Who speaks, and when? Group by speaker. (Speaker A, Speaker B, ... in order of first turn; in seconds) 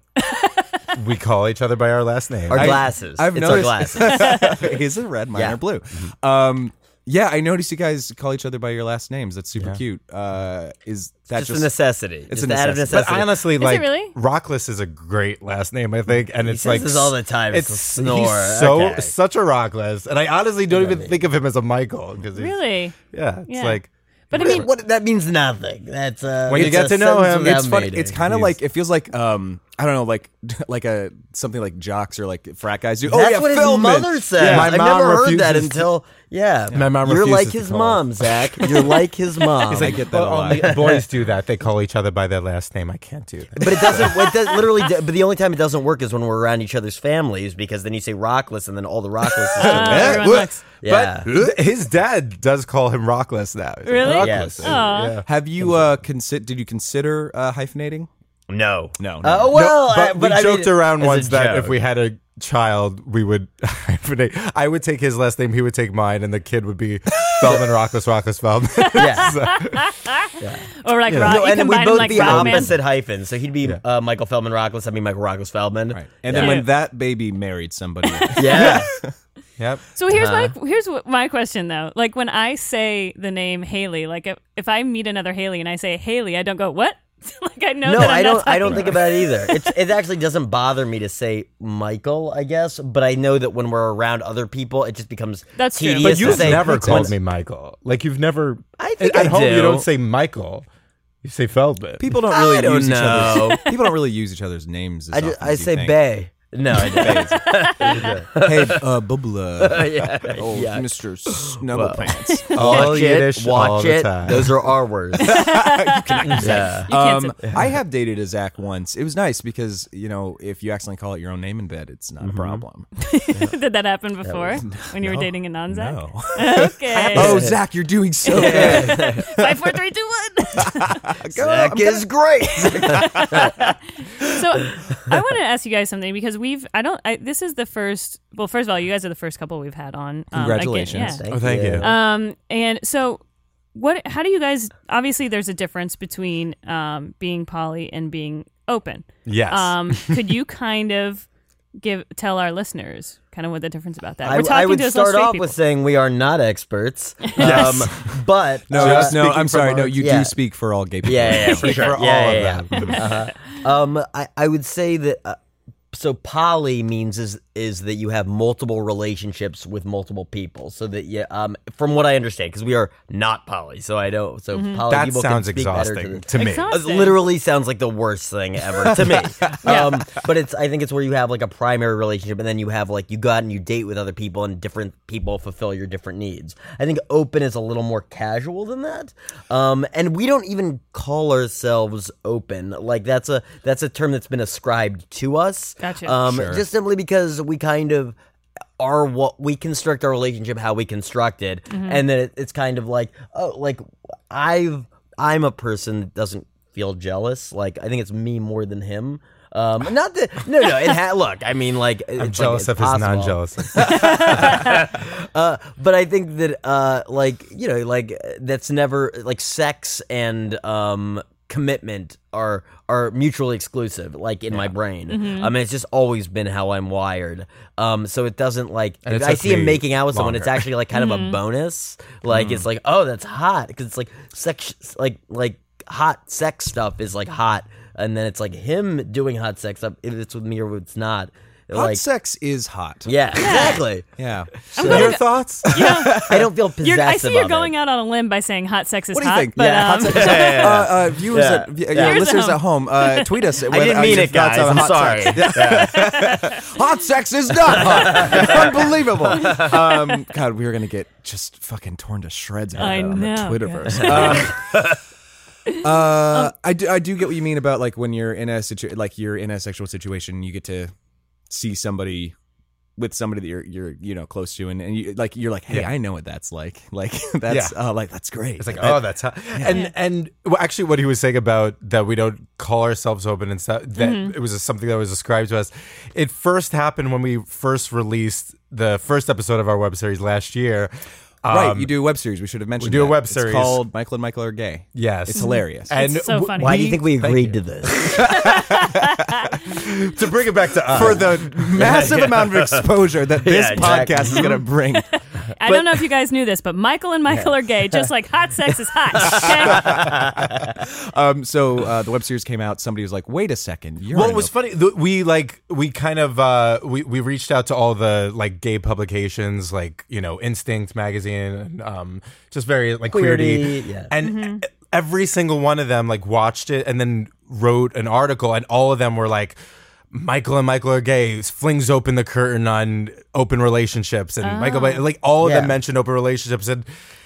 Speaker A: 0.2-0.7, 4.1-4.6, 13.6-14.1, 22.3-22.9, 23.5-24.7, 44.0-44.8, 49.5-50.6, 53.9-55.2, 68.8-72.8, 76.4-76.7, 78.2-78.8, 79.9-89.8, 95.6-97.1, 112.6-113.0, 115.2-117.3, 123.0-127.5, 128.2-131.1, 132.7-141.2, 141.8-143.2, 143.7-151.3, 151.8-155.5, 157.3-157.9, 161.5-162.0, 162.7-163.3, 174.5-174.8, 176.3-177.2, 179.6-180.0, 195.8-196.2, 201.7-202.0, 213.8-214.8, 225.1-225.5, 230.9-231.4, 243.3-243.8, 244.8-250.9, 251.9-253.3, 255.6-256.6, 262.8-264.6, 279.7-279.9, 284.0-284.4, 295.3-296.9, 298.1-299.6, 305.1-310.2, 324.2-324.6, 334.4-335.0
Speaker B: 0.9-2.8, 12.9-22.6, 23.1-24.6, 26.5-27.7, 28.2-28.5, 34.4-35.9, 36.7-38.8, 39.7-44.3, 49.7-55.2, 59.5-69.9, 71.1-71.4, 72.0-72.8, 79.6-79.8, 96.0-100.7, 101.2-102.0, 107.9-108.3, 112.5-114.5, 141.3-141.9, 149.2-150.2, 157.4-157.8, 158.7-160.0, 161.4-163.0, 174.9-176.7, 212.2-214.6, 229.0-230.7, 244.8-246.0, 277.5-277.8, 278.6-290.9, 291.4-291.9, 292.8-293.8, 294.9-297.6, 299.6-301.6, 314.1-329.6, 330.1-336.9
Speaker C: 2.5-4.4, 5.3-6.1, 11.3-13.4, 16.4-19.1, 20.7-21.1, 24.3-28.2, 33.0-40.0, 40.5-41.0, 43.6-51.3, 54.0-54.8, 55.6-55.9, 58.5-61.8, 67.4-67.7, 68.9-69.4, 70.4-76.7, 78.3-78.9, 80.1-80.5, 87.8-97.2, 98.8-99.8, 102.3-103.7, 105.1-108.8, 109.6-115.4, 116.3-116.9, 122.2-122.6, 124.2-124.6, 126.9-127.5, 128.3-129.3, 131.3-133.6, 140.9-142.0, 154.2-159.2, 160.0-160.3, 161.0-165.4, 165.9-198.2, 198.8-242.0, 243.1-244.1, 244.8-245.2, 246.1-247.7, 249.6-252.4, 253.7-256.1, 257.7-259.7, 263.9-265.0, 296.6-298.1, 301.8-302.9, 303.4-304.6, 305.6-306.1, 307.3-308.1, 309.1-310.8, 323.1-324.1, 335.4-335.8
Speaker D: 2.5-11.8, 12.3-13.2, 27.4-34.8, 39.7-40.8, 49.6-50.5, 54.6-58.1, 59.0-59.5, 75.9-79.1, 102.0-106.0, 106.7-107.6, 108.4-112.5, 115.2-122.9, 124.7-129.5, 130.6-133.5, 140.3-141.2, 158.7-161.6, 178.9-179.7, 196.2-196.6, 232.3-232.7, 241.7-243.6, 244.2-245.2, 245.7-246.5, 249.1-264.8, 265.8-270.9, 271.5-272.4, 273.0-279.8, 291.5-295.9, 298.1-299.2, 300.9-305.1, 310.8-314.5